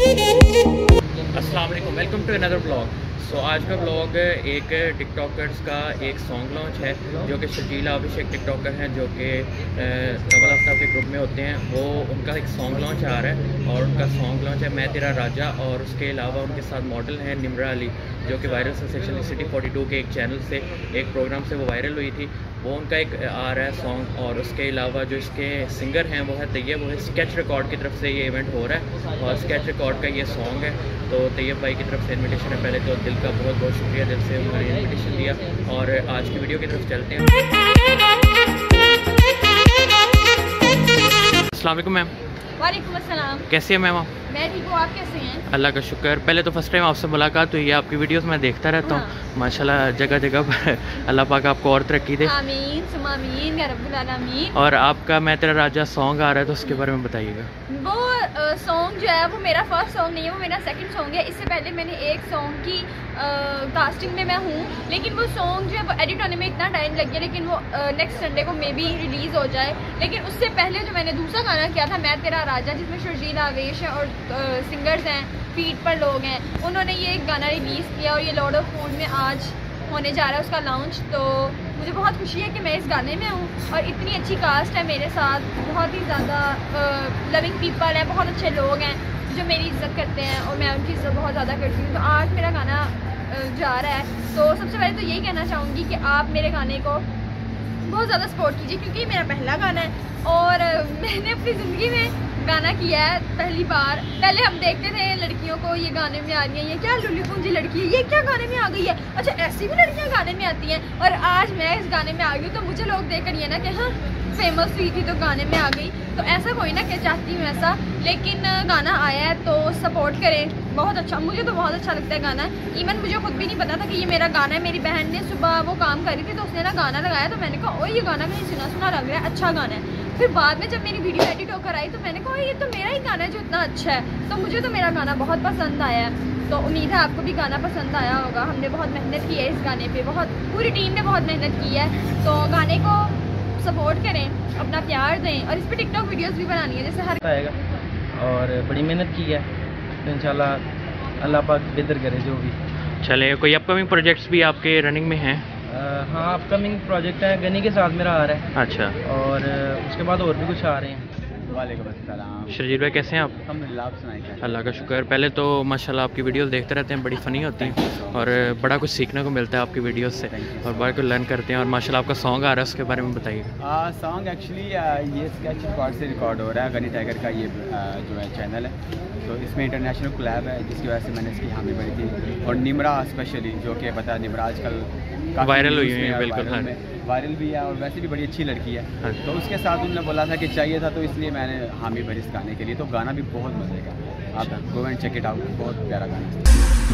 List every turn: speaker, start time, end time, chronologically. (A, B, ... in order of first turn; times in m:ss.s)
0:01.3-0:37.2 A
0:41.4-0:42.1 A
0:42.6-0:43.5 B
0:43.5-0:44.1 A
0:44.3-0:45.4 B
0:45.5-0:52.3 A
0:48.8-0:49.1 B
0:52.2-0:54.6 B
0:54.5-0:57.5 A
0:57.7-1:37.0 B
1:37.8-2:27.2 B
2:27.2-2:27.6 C
2:28.2-2:29.5 C
2:30.0-2:30.6 C
2:31.2-2:32.6 C
2:33.0-2:35.4 A
2:35.7-2:38.4 C
2:38.5-2:39.0 A
2:39.0-2:41.1 C
2:41.5-2:42.6 D
2:42.5-2:43.4 A
2:43.4-2:45.0 D
2:44.4-2:53.5 A
2:47.6-2:48.8 D
2:50.3-2:51.2 D
2:53.6-3:16.5 D
3:05.4-3:06.7 A
3:09.0-3:09.3 A